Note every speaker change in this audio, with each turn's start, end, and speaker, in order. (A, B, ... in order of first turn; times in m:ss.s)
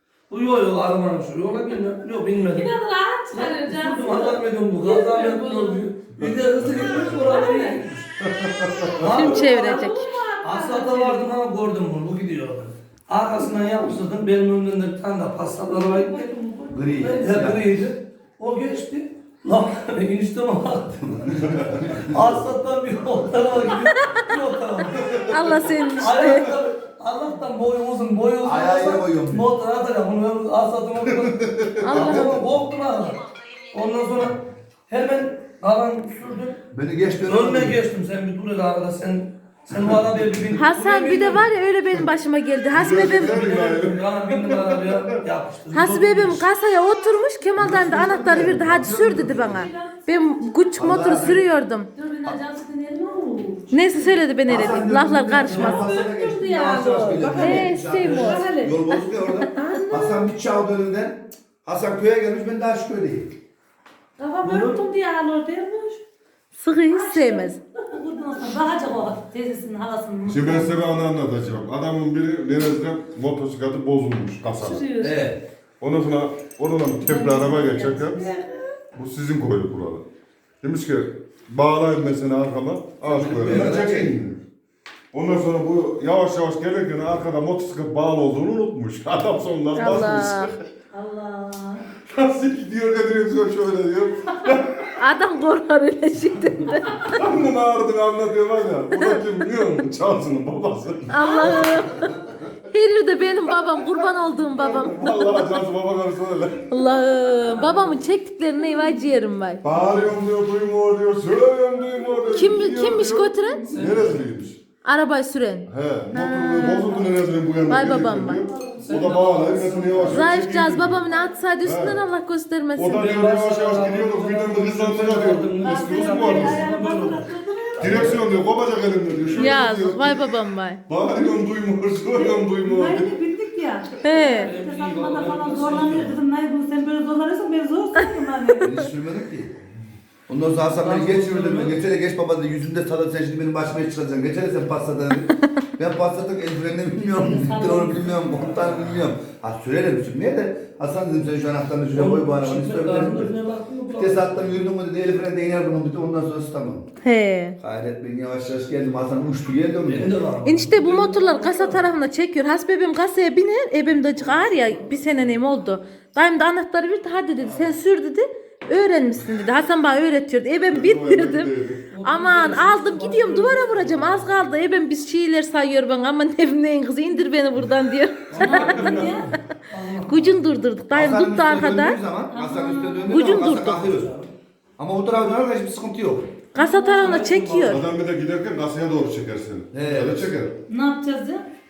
0:00.3-0:02.7 A
0:02.5-0:05.8 B
0:03.3-0:08.1 A
0:06.2-0:07.1 C
0:07.2-0:07.8 B
0:08.2-0:09.2 C
0:09.0-0:09.7 A
0:09.0-0:10.0 D
0:09.2-0:11.3 B
0:10.4-0:16.3 A
0:15.7-0:16.9 B
0:16.7-0:17.6 E
0:16.9-0:21.3 A
0:21.0-0:22.2 E
0:22.0-0:36.6 A
0:23.9-0:24.2 D
0:25.3-0:26.5 D
0:28.4-0:29.5 E
0:31.5-0:32.4 C
0:31.8-0:32.4 D
0:36.7-0:37.8 E
0:37.2-0:41.5 A
0:40.6-0:43.4 D
0:42.7-0:45.1 C
0:42.8-0:46.4 A
0:45.7-0:51.9 D
0:47.6-0:49.7 E
0:49.5-0:50.7 B
0:50.8-0:51.4 E
0:52.0-0:54.2 B
0:53.7-0:55.9 D
0:54.4-1:03.3 E
0:55.4-0:55.9 A
0:55.6-1:00.1 B
0:57.3-0:58.5 D
1:04.2-1:06.0 B
1:04.4-1:04.9 A
1:06.5-1:07.6 D
1:06.9-1:10.8 B
1:10.2-1:14.9 C
1:14.6-1:15.2 B
1:15.0-1:15.4 E
1:15.8-1:18.2 C
1:17.0-1:18.5 B
1:18.9-1:20.0 C
1:20.6-1:24.4 C
1:23.0-1:24.2 E
1:25.1-1:30.5 C
1:29.7-1:30.5 D
1:30.9-1:31.8 B
1:32.1-1:34.8 C
1:35.0-1:37.2 D
1:37.2-1:41.7 C
1:38.9-1:39.2 D
1:41.1-1:42.2 D
1:42.7-1:45.6 D
1:44.6-1:46.6 C
1:46.7-1:49.6 D
1:49.6-1:54.6 C
1:52.3-1:53.7 D
1:53.7-1:54.2 A
1:54.8-1:57.0 D
1:55.7-2:01.0 C
1:57.6-1:58.4 D
1:58.5-1:58.9 B
1:58.7-2:00.2 A
2:00.1-2:03.0 D
2:01.6-2:02.0 C
2:02.8-2:06.7 C
2:02.9-2:08.2 A
2:05.6-2:07.9 B
2:07.8-2:10.3 C
2:09.3-2:09.6 A
2:09.4-2:10.8 D
2:10.9-2:13.2 C
2:12.1-2:18.7 B
2:14.0-2:14.5 D
2:14.3-2:16.2 A
2:18.6-2:19.5 E
2:20.3-2:33.3 E
2:20.7-2:21.8 A
2:27.1-2:28.1 B
2:28.3-2:29.0 A
2:31.9-2:34.6 A
2:34.0-2:36.8 E
2:37.0-2:37.6 D
2:37.6-2:40.1 E
2:39.8-2:41.9 A
2:40.4-2:59.2 D
2:44.2-2:45.3 A
2:47.4-2:47.7 A
2:50.7-2:51.8 C
2:51.9-2:54.5 A
2:58.3-3:00.4 A
2:58.4-2:59.3 B
3:00.0-3:02.0 D
3:00.9-3:04.2 E
3:02.3-3:03.0 B
3:02.9-3:03.9 D
3:03.5-3:04.3 A
3:04.8-3:06.3 E
3:06.5-3:07.8 D
3:06.6-3:07.1 B
3:06.9-3:07.8 A
3:07.7-3:10.5 C
3:09.7-3:10.3 E
3:10.7-3:11.4 B